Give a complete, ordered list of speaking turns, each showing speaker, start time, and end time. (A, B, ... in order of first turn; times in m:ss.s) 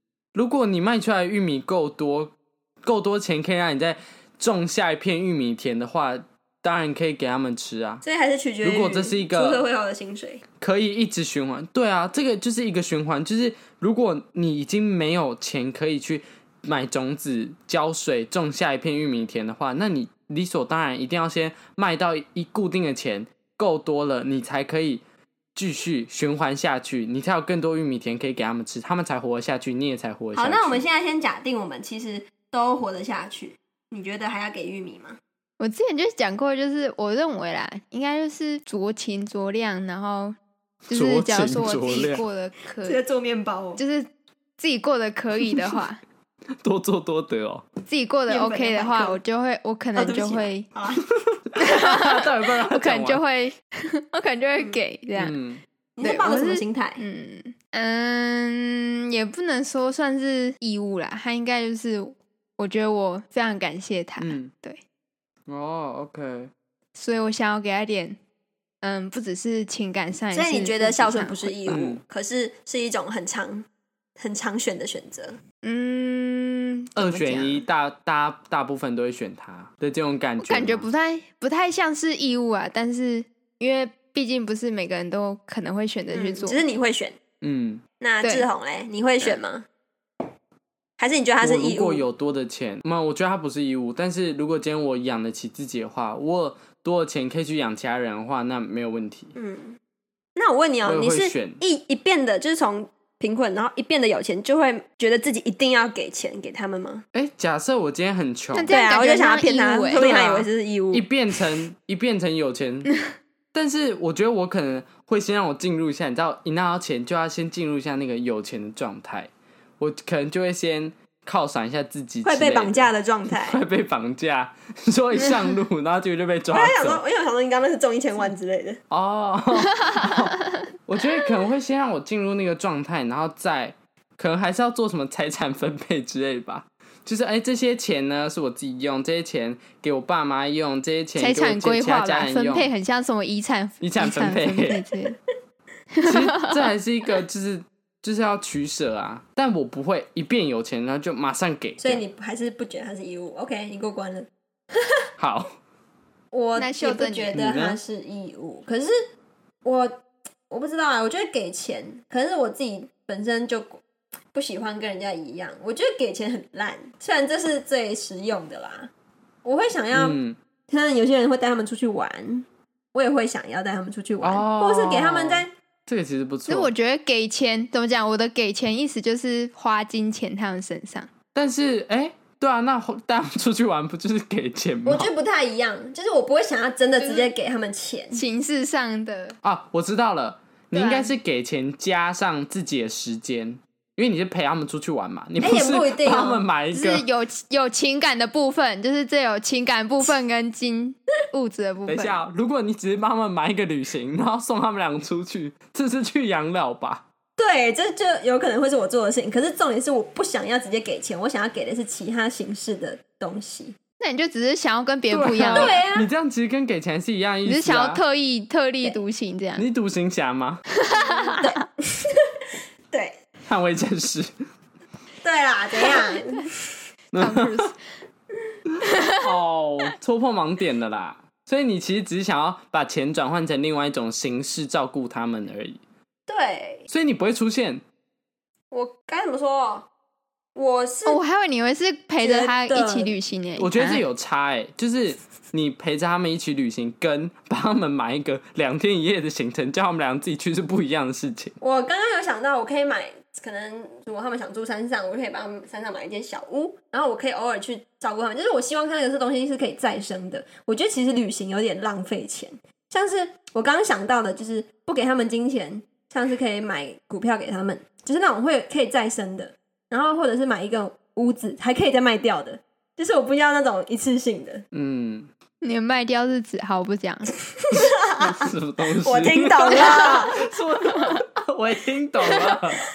0:00.3-0:08.0 A
0:08.0-0:10.4 B
0:08.6-0:09.6 A
0:10.6-0:25.0 A
0:25.5-0:30.8 A
0:30.4-0:35.2 B
0:35.6-0:40.4 C
0:40.9-0:43.0 C
0:40.9-0:42.2 A
0:42.8-0:43.8 B
0:43.8-0:46.0 C
0:46.6-0:47.6 A
0:47.8-0:50.6 C
0:48.3-0:49.2 B
0:50.0-0:51.0 B
0:51.2-0:53.2 A
0:51.6-0:55.4 C
0:55.2-0:55.6 A
0:56.0-0:57.0 B
0:56.0-1:04.8 C
1:04.2-1:04.5 A
1:05.5-1:06.5 A
1:07.0-1:08.2 C
1:08.8-1:11.8 C
1:10.3-1:13.6 B
1:11.7-1:12.0 A
1:14.2-1:15.4 B
1:15.6-1:17.6 C
1:16.9-1:20.9 A
1:20.4-1:26.6 C
1:26.1-1:27.2 B
1:27.4-1:27.8 A
1:28.0-1:29.6 B
1:31.0-1:32.0 B
1:31.4-1:39.3 A
1:39.3-1:39.8 B
1:40.4-1:47.0 B
1:40.8-1:41.6 A
1:47.1-1:48.7 A
1:48.5-1:50.1 C
1:48.7-1:51.0 B
1:49.9-1:52.9 A
1:53.5-2:07.0 A
2:02.2-2:03.6 B
2:06.5-2:08.8 B
2:08.9-2:22.7 A
2:21.2-2:25.2 C
2:23.8-2:24.8 A
2:25.9-2:26.7 C
2:26.0-2:32.0 A
2:31.8-2:35.0 B
2:35.2-2:35.5 A
2:36.3-2:38.9 B
2:36.6-2:37.4 C
2:37.3-2:37.8 A
2:39.6-2:43.8 B
2:44.3-2:48.9 B
2:49.4-2:55.5 B
2:49.9-2:50.4 A
2:54.2-2:56.7 A
2:56.5-3:01.1 C
3:01.3-3:05.1 A
3:04.8-3:08.2 B
3:07.0-3:07.3 C
3:08.1-3:09.4 C
3:09.4-3:17.0 A
3:10.7-3:11.1 C
3:15.4-3:16.4 B
3:16.7-3:22.2 C
3:21.9-3:27.0 A
3:27.4-3:33.8 B
3:34.0-3:35.8 C
3:35.1-3:38.0 A
3:35.5-3:36.1 B
3:37.4-3:39.6 C
3:39.6-3:40.6 A
3:40.8-3:41.6 C
3:41.3-3:42.4 B
3:43.5-3:44.3 A
3:45.2-3:46.5 B
3:45.8-3:46.5 C
3:47.1-3:47.6 A
3:47.2-3:47.7 C
3:48.8-3:49.2 C
3:49.1-3:55.8 A
3:56.3-3:56.9 B
3:56.9-3:57.8 A
3:58.7-3:59.9 B
4:00.5-4:01.2 B
4:01.0-4:04.0 C
4:02.2-4:03.1 B
4:03.6-4:11.6 A
4:11.6-4:34.6 B
4:34.7-4:35.3 A
4:35.6-4:37.3 C
4:37.6-4:38.4 B
4:37.7-4:42.8 A
4:39.0-4:40.4 B
4:42.2-4:42.5 C